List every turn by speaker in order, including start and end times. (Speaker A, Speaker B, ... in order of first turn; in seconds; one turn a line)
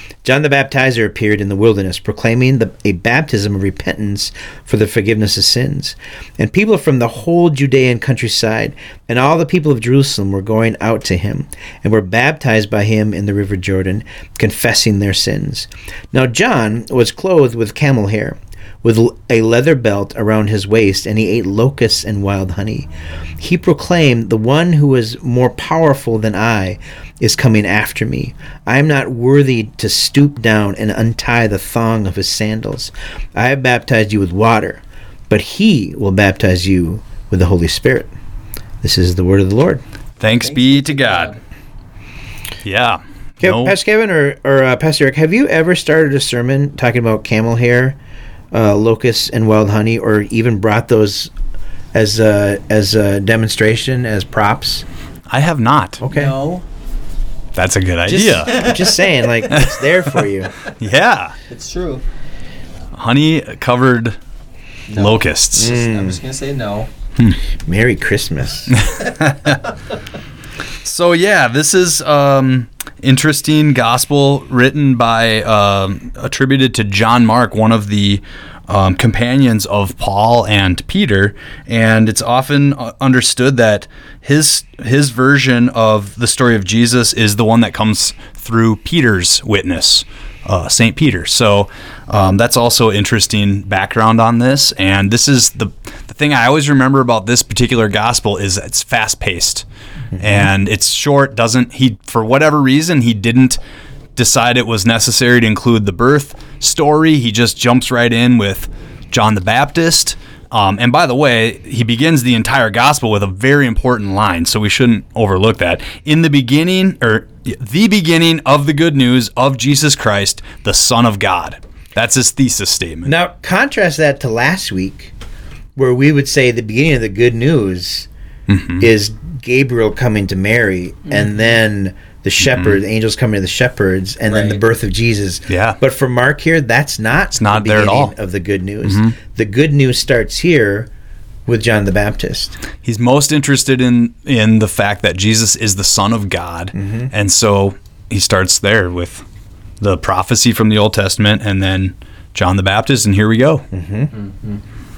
Speaker A: 0.2-38.1
Speaker A: 38.8-39.8
Speaker B: 40.2-41.3
Speaker C: 40.4-41.4
Speaker B: 42.6-43.7
Speaker A: 43.4-48.0
Speaker A: 48.5-51.3
Speaker A: 51.9-54.8
Speaker B: 55.3-56.0
Speaker A: 56.0-56.3
Speaker C: 56.1-56.6
Speaker B: 57.5-58.8
Speaker A: 58.1-60.5
Speaker C: 58.5-59.1
Speaker B: 59.5-60.2
Speaker B: 60.8-61.4
Speaker C: 61.5-62.0
Speaker B: 63.0-64.2
Speaker C: 64.9-66.9
Speaker B: 65.0-65.8
Speaker A: 65.6-66.2
Speaker A: 67.6-68.8
Speaker B: 68.7-69.6
Speaker B: 70.8-99.7
Speaker A: 100.1-100.5
Speaker B: 100.2-103.6
Speaker B: 104.2-123.2
Speaker A: 123.0-125.1
Speaker A: 125.8-128.1
Speaker B: 128.5-128.9
Speaker A: 128.8-140.9
Speaker C: 131.1-131.5
Speaker B: 132.4-132.8
Speaker C: 134.3-134.6
Speaker B: 135.5-135.8
Speaker B: 137.4-138.1
Speaker B: 138.8-139.2
Speaker A: 141.5-142.6
Speaker B: 142.8-149.2
Speaker A: 146.8-147.1
Speaker B: 149.8-153.7
Speaker A: 153.7-154.1
Speaker C: 154.1-154.6